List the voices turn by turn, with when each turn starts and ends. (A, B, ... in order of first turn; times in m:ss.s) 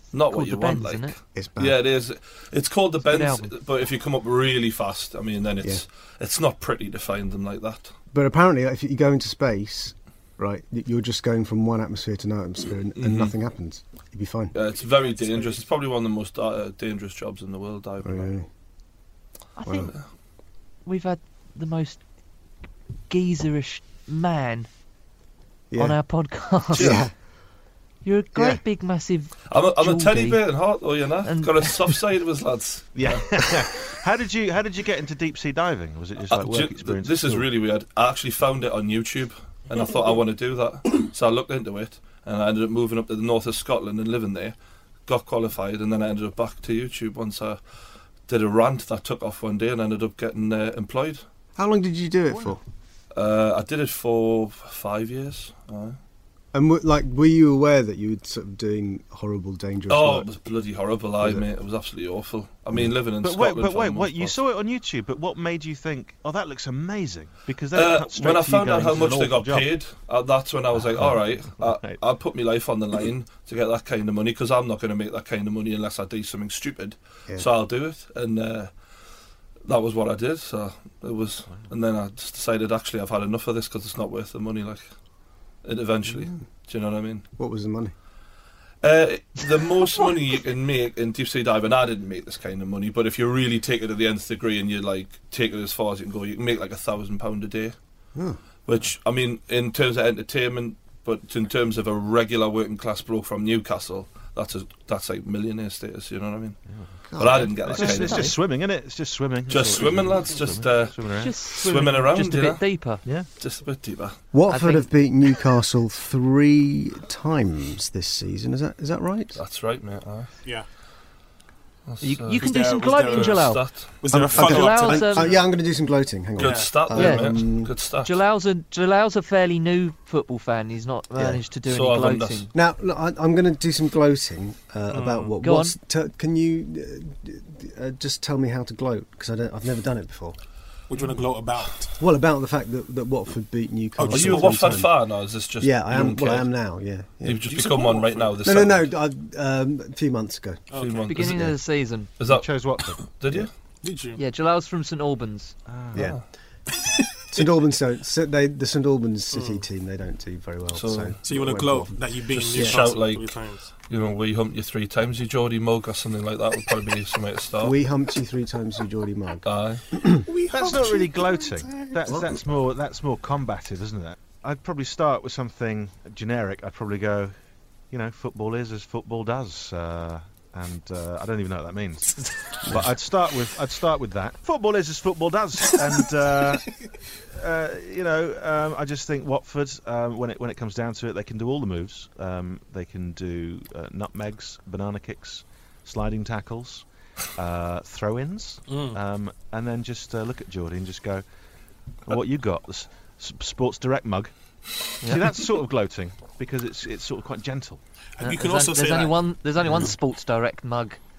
0:00.1-0:07.9 A
0:00.3-0:01.1 B
0:01.3-0:01.8 C
0:03.0-0:03.5 B
0:08.1-0:14.5 C
0:13.0-0:13.3 A
0:14.5-0:18.3 A
0:18.0-0:18.5 C
0:19.6-0:19.9 B
0:19.6-0:19.9 C
0:20.8-0:22.0 B
0:23.1-0:24.7 B
0:25.7-0:26.0 C
0:25.8-0:27.0 B
0:26.7-0:27.1 C
0:26.8-0:27.0 A
0:28.0-0:30.4 B
0:28.3-0:28.6 C
0:29.5-0:33.6 A
0:31.2-0:31.7 B
0:32.9-0:37.5 D
0:36.3-0:44.6 A
0:45.1-0:47.6 A
0:48.3-0:51.2 A
0:51.6-0:52.6 C
0:53.1-0:56.0 A
0:56.5-1:00.3 C
0:59.9-1:04.4 A
1:01.2-1:01.4 C
1:03.2-1:09.7 D
1:07.7-1:18.7 A
1:10.7-1:12.0 D
1:19.6-1:24.8 A
1:25.6-1:27.2 A
1:26.1-1:26.4 C
1:27.4-1:27.9 C
1:28.8-1:37.7 A
1:38.1-1:38.4 C
1:38.6-1:46.6 A
1:46.7-1:51.4 D
1:47.1-1:48.2 C
1:47.2-1:48.4 A
1:47.8-1:48.3 B
1:49.5-1:51.0 A
1:51.2-1:53.0 B
1:51.5-1:52.6 A
1:53.4-1:54.2 A
1:54.3-1:59.4 C
1:54.5-1:54.9 B
1:59.3-2:00.3 A
2:01.9-2:04.0 A
2:02.0-2:03.6 B
2:02.3-2:05.4 E
2:04.1-2:07.7 C
2:04.2-2:05.3 B
2:06.4-2:08.1 A
2:06.4-2:06.7 E
2:06.9-2:07.3 B
2:08.0-2:12.5 B
2:11.1-2:11.4 C
2:11.7-2:12.4 A
2:12.5-2:20.4 C
2:14.9-2:15.4 E
2:15.4-2:15.8 B
2:20.9-2:22.0 E
2:22.0-2:25.0 C
2:24.0-2:24.8 E
2:24.1-2:26.5 A
2:25.6-2:27.4 C
2:27.2-2:28.9 A
2:27.5-2:28.4 E
2:28.4-2:30.7 C
2:30.7-2:31.2 E
2:30.8-2:31.5 A
2:31.1-2:32.1 B
2:32.2-2:33.5 A
2:32.2-2:33.0 D
2:33.8-2:34.2 E
2:34.2-2:35.6 B
2:35.7-2:36.1 D
2:35.9-2:36.2 C
2:35.9-2:36.2 A
2:37.3-2:42.8 C
2:39.3-2:39.6 E
2:40.7-2:41.2 A
2:41.2-2:43.7 E
2:42.5-2:43.4 A
2:43.9-2:47.8 A
2:47.6-2:50.2 C
2:49.4-2:49.9 A
2:50.3-2:52.0 E
2:50.5-2:57.3 D
2:57.9-3:06.7 D
3:02.1-3:02.5 E
3:02.6-3:02.9 C
3:07.3-3:21.2 D
3:18.7-3:19.0 E
3:22.0-3:24.3 D
3:25.0-3:25.2 B
3:25.0-3:27.8 D
3:28.2-3:29.2 E
3:28.2-3:31.0 B